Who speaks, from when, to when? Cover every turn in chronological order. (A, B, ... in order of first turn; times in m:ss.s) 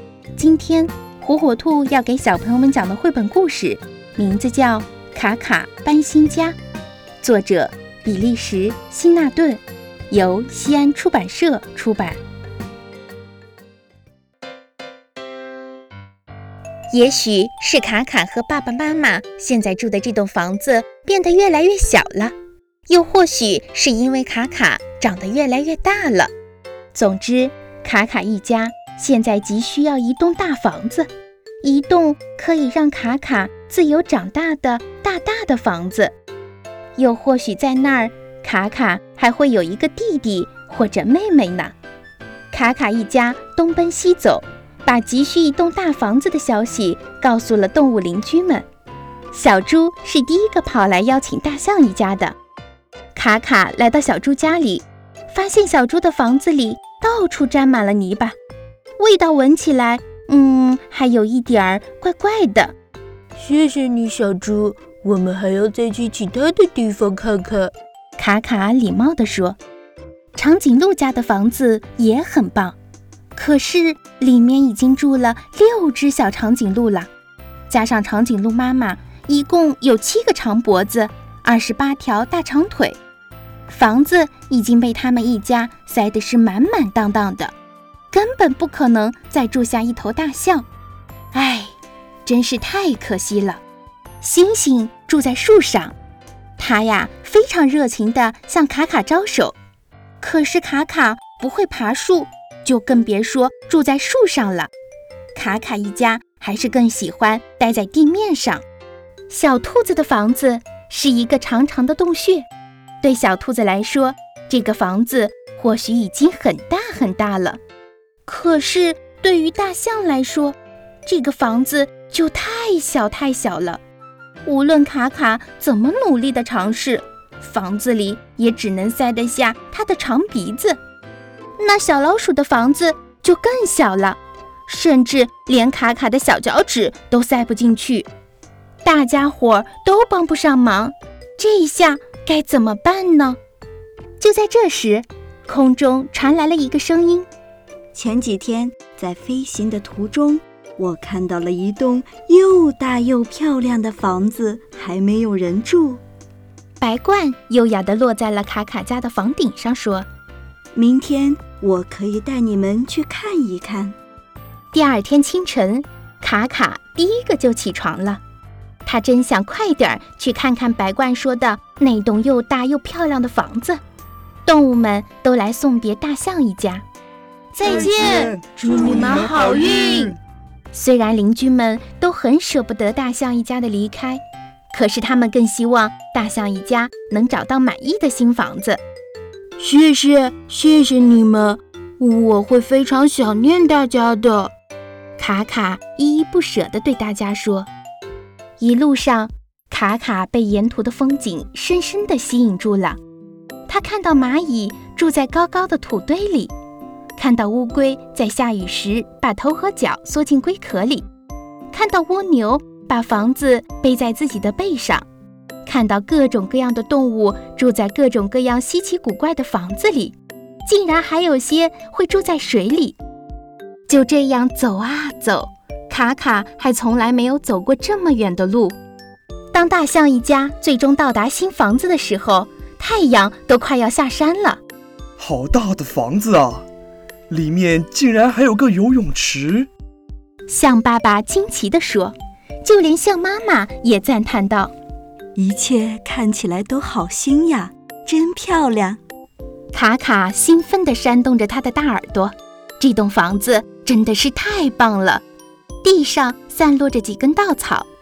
0:00.3-0:06.6 A
0:07.2-0:12.2 A
0:16.9-0:22.3 A
0:22.9-0:26.3 A
0:26.9-0:31.1 A
0:31.6-0:36.1 A
0:37.0-0:41.7 A
0:42.5-0:48.6 A
0:49.3-0:52.4 A
0:53.1-0:58.4 A
0:59.0-1:02.7 A
1:03.4-1:07.7 B
1:08.2-1:09.6 A
1:10.3-1:12.8 A
1:13.3-1:17.1 A
1:17.7-1:23.0 A
1:23.7-1:27.5 A
1:28.1-1:30.6 A
1:31.3-1:31.7 A
1:32.2-1:33.6 A
1:34.2-1:35.9 A
1:36.6-1:39.5 A
1:40.2-1:44.7 A
1:45.3-1:48.6 A
1:49.3-1:52.5 A
1:53.0-1:57.6 A
1:58.2-2:03.8 A
2:04.4-2:10.8 A
2:11.6-2:18.1 A
2:18.8-2:23.4 A
2:24.2-2:27.3 A
2:27.9-2:36.0 C
2:36.8-2:40.1 A
2:40.7-2:43.9 C
2:44.7-2:48.2 A
2:48.8-2:53.8 A
2:54.4-2:56.8 A
2:57.5-3:00.2 A
3:00.7-3:08.8 A
3:09.6-3:14.5 A
3:15.2-3:17.7 A
3:18.6-3:23.0 A
3:23.7-3:26.5 A
3:27.2-3:31.0 A
3:31.7-3:35.0 A
3:35.6-3:43.0 A
3:43.9-3:48.8 A
3:49.5-3:54.6 A
3:55.2-3:56.6 D
3:57.3-3:59.7 D
4:00.5-4:04.7 A
4:05.4-4:09.0 C
4:09.7-4:15.2 A
4:15.8-4:17.9 A